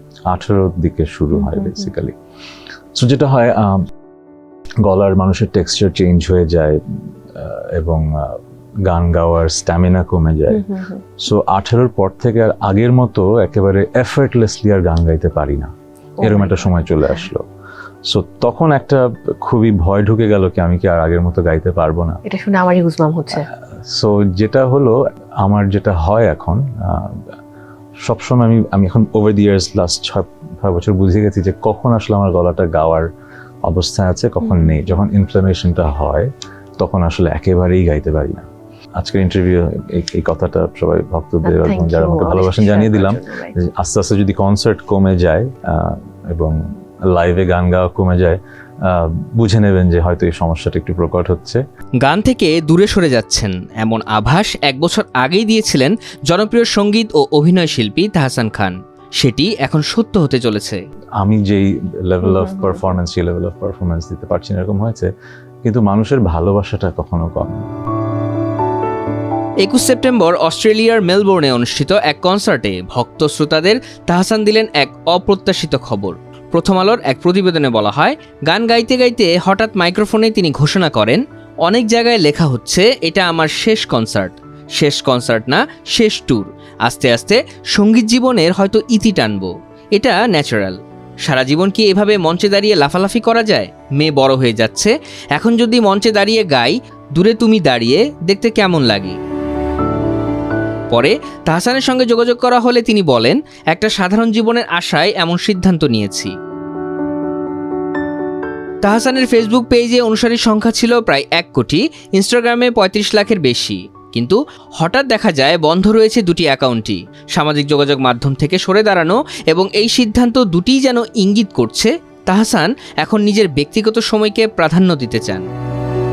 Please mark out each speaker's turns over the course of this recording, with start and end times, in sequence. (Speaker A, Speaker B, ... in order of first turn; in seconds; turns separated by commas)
Speaker A: 0.3-2.1, Speaker B: 1.5-1.7, Speaker A: 3.0-3.9, Speaker A: 4.8-6.8, Speaker A: 7.3-17.4, Speaker B: 10.6-11.0, Speaker B: 16.2-17.1, Speaker A: 18.1-22.2, Speaker B: 22.2-23.5, Speaker A: 23.9-27.2, Speaker A: 28.1-33.0, Speaker A: 33.7-36.3, Speaker B: 34.4-34.8, Speaker A: 36.8-38.5, Speaker A: 39.0-46.6, Speaker B: 41.4-43.6, Speaker A: 47.1-51.6, Speaker C: 52.0-60.8, Speaker A: 61.2-65.1, Speaker A: 65.6-67.7, Speaker C: 69.6-99.2, Speaker C: 100.9-106.3, Speaker C: 108.8-125.5